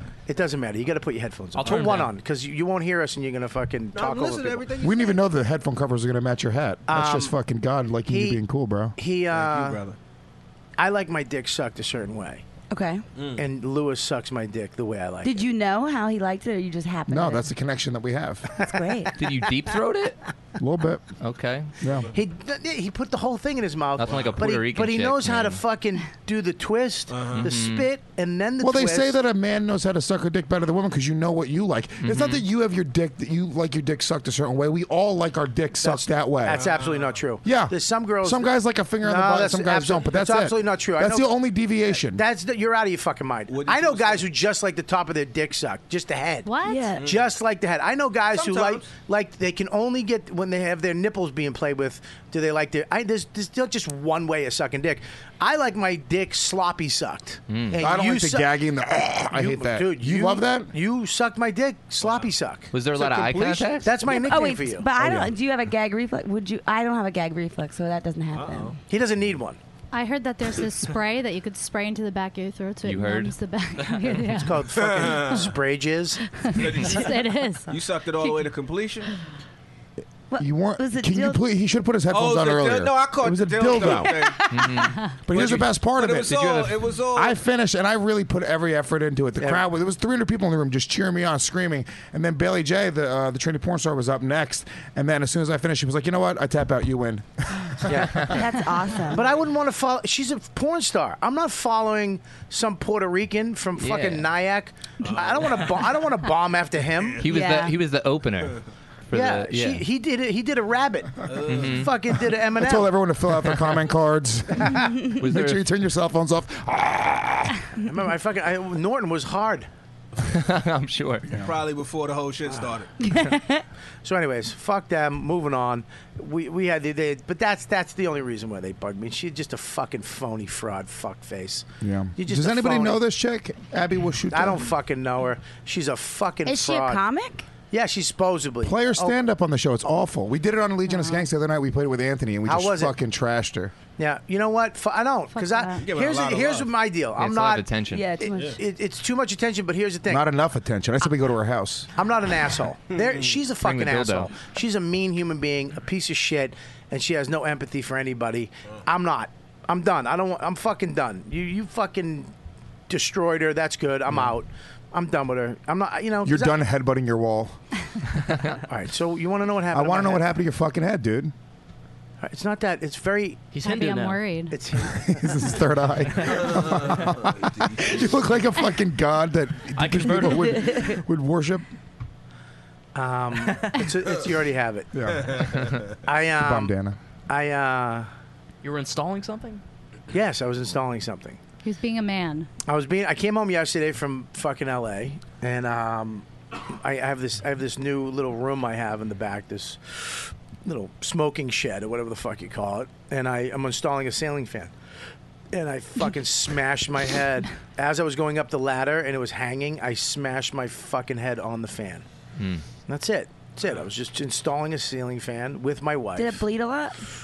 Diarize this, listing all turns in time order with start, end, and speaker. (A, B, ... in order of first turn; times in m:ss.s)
0:00.3-0:04.7 A
0:01.6-0:02.1 B
0:03.9-0:05.2 C
0:04.8-0:09.0 D
0:06.9-0:07.4 A
0:08.1-0:08.4 A
0:09.0-0:09.8 A
0:09.3-0:10.0 C
0:10.8-0:12.4 A
0:12.7-0:13.0 E
0:13.2-0:13.4 C
0:13.4-0:15.4 A
0:15.2-0:17.5 E
0:17.1-0:18.5 D
0:18.6-0:19.1 E
0:19.2-0:20.2 F
0:20.6-0:21.1 D
0:21.2-0:21.7 F
0:21.8-0:22.1 D
0:22.1-0:29.2 A
0:24.0-0:25.6 F
0:24.1-0:24.4 C
0:27.1-0:27.5 C
0:27.3-0:27.9 F
0:28.6-0:36.7 D
0:32.0-0:32.4 F
0:35.8-0:41.4 A
0:36.5-0:37.2 C
0:37.4-0:42.2 D
0:41.9-0:46.5 A
0:43.5-0:44.3 C
0:46.4-0:46.9 G
0:46.6-0:47.0 E
0:47.0-0:47.3 C
0:47.0-0:58.6 A
0:48.3-0:48.9 C
0:57.5-0:57.8 F
0:57.8-1:00.7 D
0:59.3-1:04.9 A
1:02.0-1:02.3 C
1:02.7-1:03.9 F
1:03.0-1:03.7 C
1:04.0-1:08.8 E
1:05.0-1:05.3 D
1:08.3-1:08.8 C
1:08.9-1:09.6 A
1:09.9-1:14.7 G
1:12.8-1:13.3 F
1:13.9-1:14.2 B
1:14.4-1:16.2 A
1:14.7-1:15.5 C
1:16.4-1:18.4 G
1:16.5-1:19.1 C
1:20.3-1:21.4 E
1:20.4-1:24.3 D
1:22.1-1:24.7 C
1:24.5-1:25.0 F
1:24.8-1:25.1 G
1:25.3-1:38.4 D
1:25.3-1:27.4 C
1:26.3-1:26.8 F
1:37.9-1:38.3 A
1:38.3-1:39.2 E
1:39.1-1:47.2 A
1:43.8-1:44.3 F
1:45.0-1:46.0 C
1:46.9-1:47.3 C
1:47.2-1:49.8 F
1:47.2-1:47.8 E
1:49.1-1:52.9 A
1:51.3-1:51.9 C
1:51.5-1:51.9 F
1:52.6-1:57.6 D
1:55.2-1:55.6 F
1:57.8-1:59.7 A
2:00.3-2:01.4 F
2:01.3-2:02.9 C
2:03.0-2:03.6 E
2:04.0-2:13.0 A
2:11.8-2:14.7 D
2:14.3-2:17.0 A
2:16.5-2:17.5 E
2:17.7-2:19.2 A
2:18.6-2:23.7 D
2:20.9-2:21.2 G
2:22.4-2:22.9 A
2:24.0-2:27.7 A
2:25.4-2:25.8 G
2:25.8-2:26.7 C
2:27.2-2:28.1 F
2:27.9-2:28.6 E
2:28.2-2:30.3 A
2:28.3-2:28.6 C
2:30.1-2:31.9 D
2:32.0-2:42.3 A
2:33.0-2:33.4 C
2:33.6-2:34.3 F
2:42.9-2:46.6 A
2:46.2-2:47.6 D
2:48.6-2:50.3 A
2:49.7-2:51.3 D
2:52.2-2:53.6 A
2:53.5-2:54.2 B
2:53.6-2:54.6 G
2:54.5-2:55.4 A
2:54.8-3:01.7 D
2:56.5-2:58.0 C
2:59.8-3:00.7 B
3:00.7-3:01.0 E
3:03.0-3:04.9 A
3:03.4-3:03.8 B
3:04.9-3:05.5 D
3:05.1-3:06.0 C
3:06.0-3:06.8 A
3:06.3-3:07.0 D
3:07.3-3:08.1 A
3:08.6-3:09.6 B
3:10.1-3:11.4 A
3:11.6-3:12.5 G
3:12.7-3:24.7 A
3:25.5-3:32.0 A
3:32.9-3:36.4 A
3:36.2-3:37.0 E